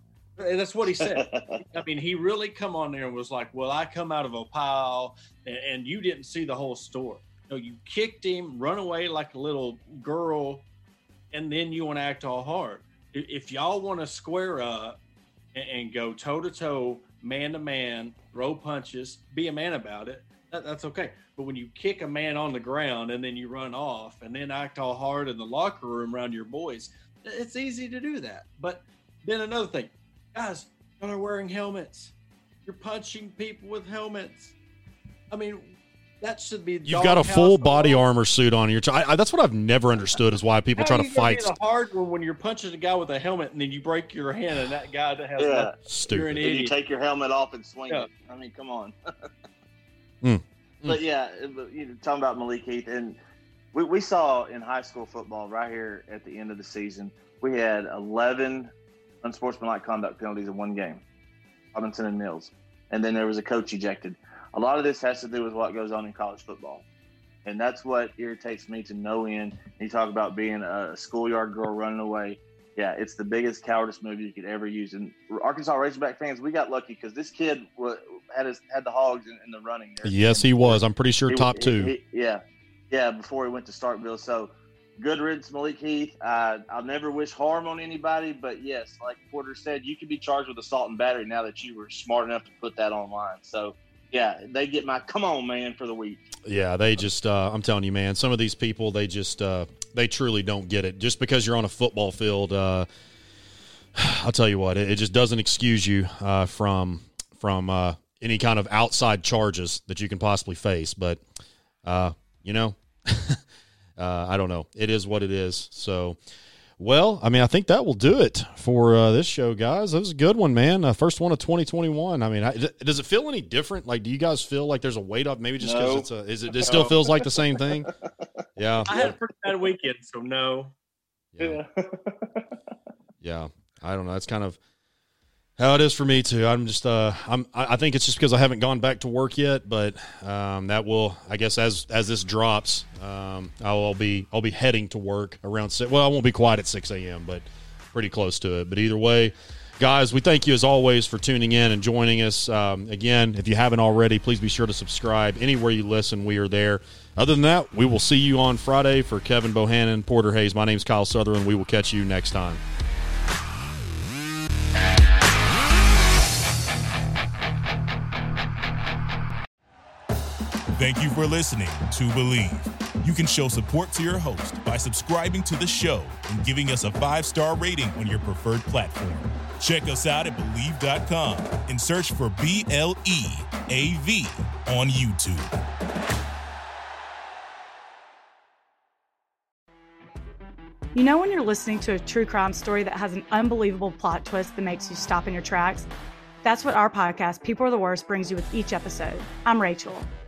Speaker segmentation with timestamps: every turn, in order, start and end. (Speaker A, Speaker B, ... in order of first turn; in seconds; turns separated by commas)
Speaker A: 0.4-10.7, Speaker B: 1.1-1.6, Speaker A: 11.3-15.0, Speaker A: 15.5-32.1, Speaker A: 32.6-34.5, Speaker A: 35.3-38.0, Speaker C: 36.9-41.5, Speaker A: 40.8-46.7, Speaker B: 45.4-45.8, Speaker C: 45.9-46.4, Speaker B: 46.4-49.0, Speaker C: 50.2-51.0, Speaker B: 50.9-53.2, Speaker B: 53.7-58.7, Speaker B: 59.2-61.0, Speaker B: 61.7-66.9, Speaker B: 67.5-96.3, Speaker C: 80.0-81.9, Speaker C: 96.5-102.9, Speaker C: 104.0-111.2, Speaker C: 111.8-113.4, Speaker C: 114.0-116.2, Speaker C: 116.8-127.9, Speaker B: 125.6-128.3, Speaker C: 128.6-129.1, Speaker B: 128.8-129.1, Speaker A: 128.9-130.7, Speaker C: 131.3-131.6, Speaker B: 131.4-132.5, Speaker C: 133.2-134.6, Speaker C: 135.6-162.6, Speaker D: 170.8-185.5, Speaker E: 190.9-195.9, Speaker E: 196.4-200.1